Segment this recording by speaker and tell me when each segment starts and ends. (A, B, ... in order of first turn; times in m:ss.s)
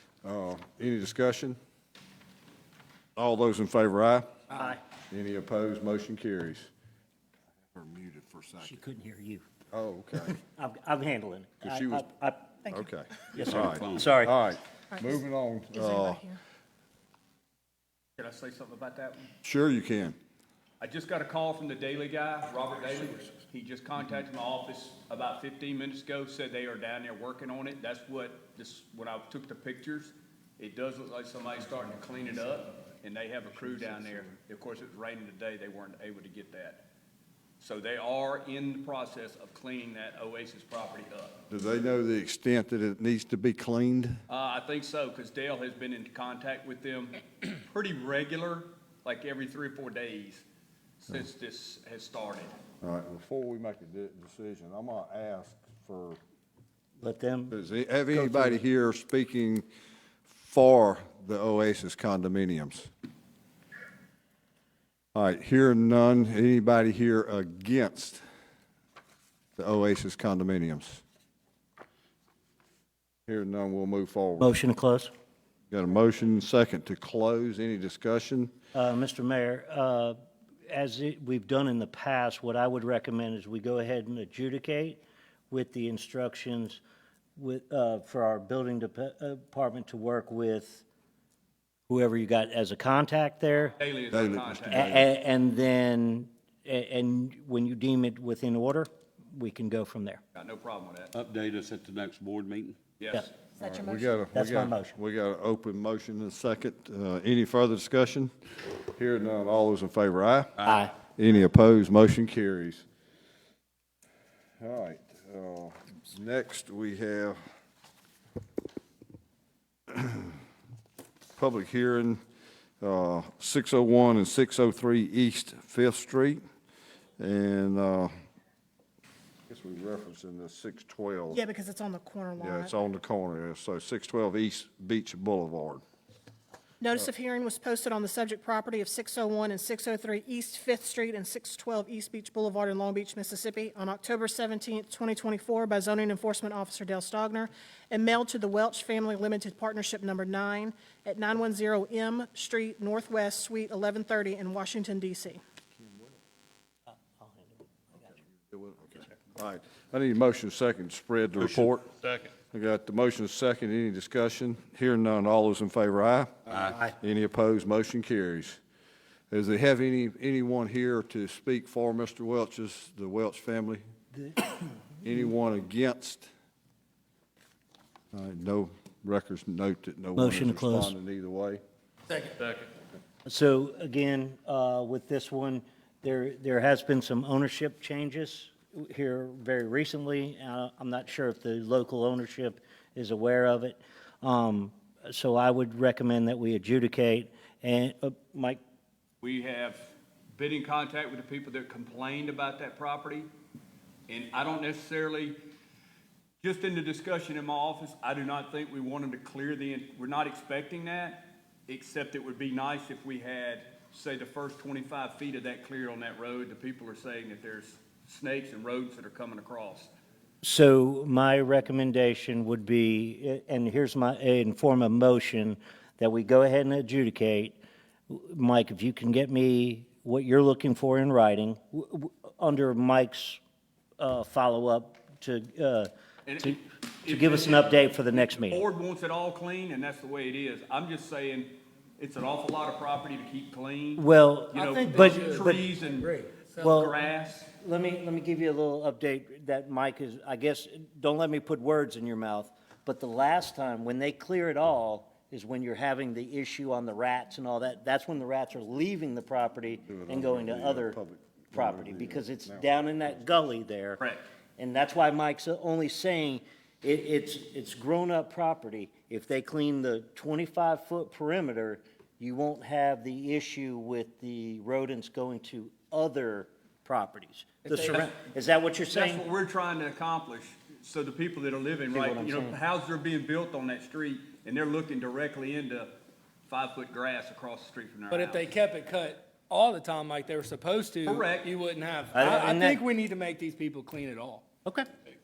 0:00.2-0:01.6 A
0:03.2-0:04.3 A
0:04.5-0:04.8 B
0:05.1-0:06.7 A
0:07.7-0:08.8 A
0:08.6-0:09.4 B
0:09.7-0:10.4 A
0:10.3-0:12.5 B
0:11.6-0:12.1 A
0:12.7-0:16.2 A
0:13.3-0:14.3 B
0:13.4-0:14.1 C
0:15.7-0:16.4 D
0:18.2-0:19.3 E
0:19.4-0:20.2 A
0:20.8-0:36.8 E
0:37.6-0:41.4 E
0:41.5-0:44.2 A
0:44.3-0:50.4 E
0:51.0-0:52.5 E
0:52.8-0:56.2 A
0:57.0-0:57.6 B
0:57.5-0:59.6 A
0:58.1-0:58.6 B
1:00.3-1:02.9 A
1:05.1-1:08.2 A
1:09.6-1:11.0 A
1:13.3-1:14.6 A
1:14.4-1:15.1 B
1:15.7-1:18.5 A
1:18.7-1:20.2 B
1:20.7-1:26.8 B
1:27.4-1:30.8 B
1:31.9-1:33.8 B
1:33.8-1:35.0 E
1:34.1-1:35.1 A
1:34.7-1:40.2 B
1:40.4-1:41.1 E
1:41.1-1:42.8 C
1:43.0-1:43.3 E
1:43.6-1:44.2 D
1:43.6-1:48.3 A
1:44.3-1:45.0 B
1:49.0-1:50.6 A
1:50.7-1:50.9 B
1:51.2-1:52.8 A
1:54.6-1:57.4 A
1:59.9-2:00.4 A
2:01.4-2:02.2 A
2:02.8-2:06.4 A
2:07.2-2:08.1 A
2:09.5-2:11.4 A
2:11.3-2:12.7 D
2:12.4-2:15.8 A
2:16.8-2:35.4 D
2:36.9-2:38.1 B
2:38.5-2:41.9 A
2:42.5-2:48.6 A
2:49.3-2:53.8 A
2:55.0-2:56.3 A
2:58.1-3:01.6 A
3:00.2-3:00.9 B
3:02.1-3:02.4 F
3:03.3-3:18.6 B
3:19.2-3:23.3 E
3:24.1-3:25.4 E
3:26.4-3:39.9 E
3:40.4-3:53.4 B
3:54.0-3:58.6 B
3:56.3-4:07.5 E
4:04.0-4:05.6 B
4:04.8-4:06.7 F
4:06.6-4:07.0 B
4:07.6-4:21.0 B
4:19.9-4:23.0 A
4:21.5-4:24.0 B
4:24.6-4:39.3 B
4:37.7-4:38.0 F
4:38.9-4:45.9 E
4:41.9-4:42.6 B
4:46.5-4:48.5 E
4:48.1-4:54.4 F
4:51.0-4:51.5 E
4:52.1-4:52.8 B